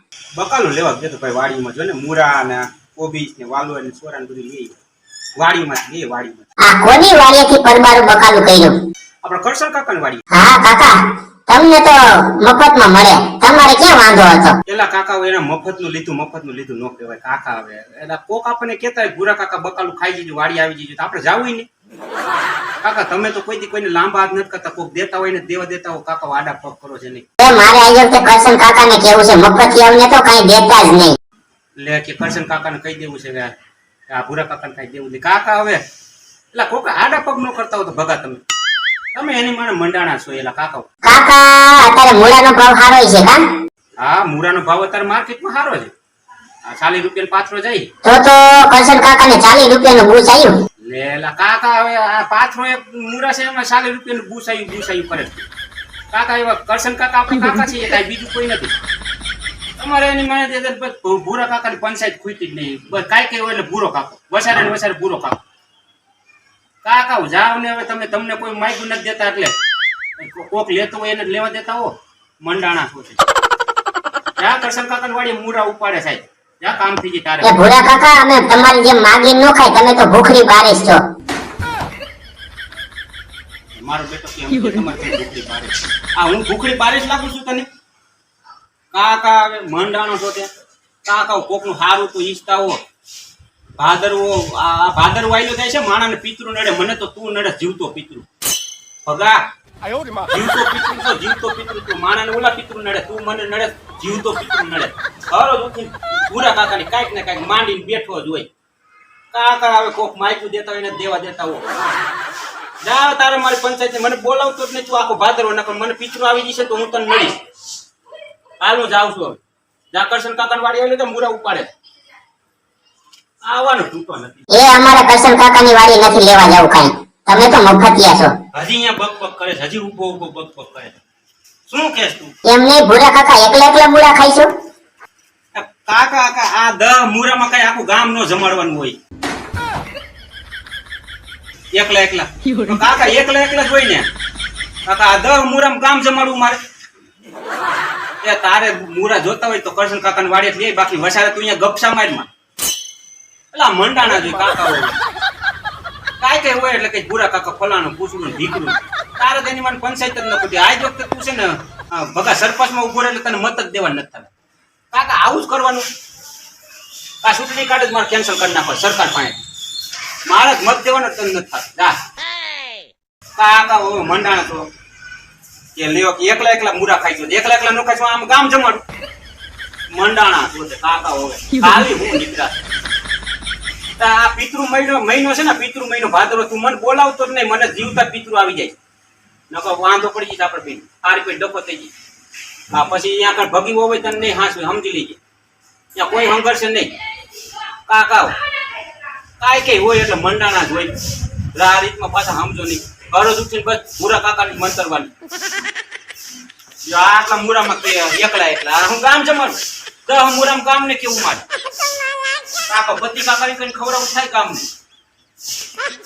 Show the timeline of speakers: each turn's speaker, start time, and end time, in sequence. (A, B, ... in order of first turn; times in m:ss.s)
0:00.4-0:04.8 A
0:05.4-0:06.5 A
0:06.6-0:08.8 B
0:09.2-0:10.2 A
0:10.3-0:14.6 B
0:14.6-0:21.7 A
0:22.8-0:27.3 A
0:27.4-0:31.2 B
0:31.8-0:33.5 A
0:34.1-0:35.8 A
0:36.5-0:38.4 A
0:39.1-0:40.9 A
0:41.0-0:43.4 B
0:44.0-0:45.9 A
0:46.7-0:47.9 A
0:48.0-0:50.6 B
0:50.9-0:55.5 A
0:56.1-0:58.7 A
0:59.8-1:05.4 A
1:06.8-1:09.5 A
1:10.2-1:13.2 A
1:14.4-1:17.6 A
1:17.4-1:21.0 B
1:23.8-1:27.7 A
1:28.9-1:30.5 A
1:31.0-1:32.8 A
1:33.8-1:38.3 A
1:39.0-1:39.4 A
1:40.3-1:48.5 A
1:49.3-1:51.7 A
1:52.8-1:57.4 A
1:58.6-1:59.4 A
1:59.9-2:01.7 A
2:03.4-2:04.4 A
2:04.5-2:08.3 B
2:08.5-2:11.0 A
2:11.7-2:12.3 A
2:12.4-2:14.5 B
2:15.5-2:19.0 A
2:21.7-2:24.1 A
2:24.8-2:26.6 A
2:28.2-2:32.3 A
2:33.5-2:35.0 A
2:36.2-2:44.3 A
2:44.9-2:45.9 A
2:47.2-2:49.4 A
2:50.2-2:52.0 A
2:53.4-2:54.7 A
2:55.8-2:58.8 A
2:59.9-3:02.6 A
3:04.0-3:08.8 A
3:09.5-3:11.9 A
3:12.7-3:15.2 A
3:15.9-3:16.9 A
3:17.9-3:18.3 A
3:19.4-3:20.9 A
3:21.5-3:25.1 A
3:26.8-3:31.4 A
3:32.7-3:34.7 A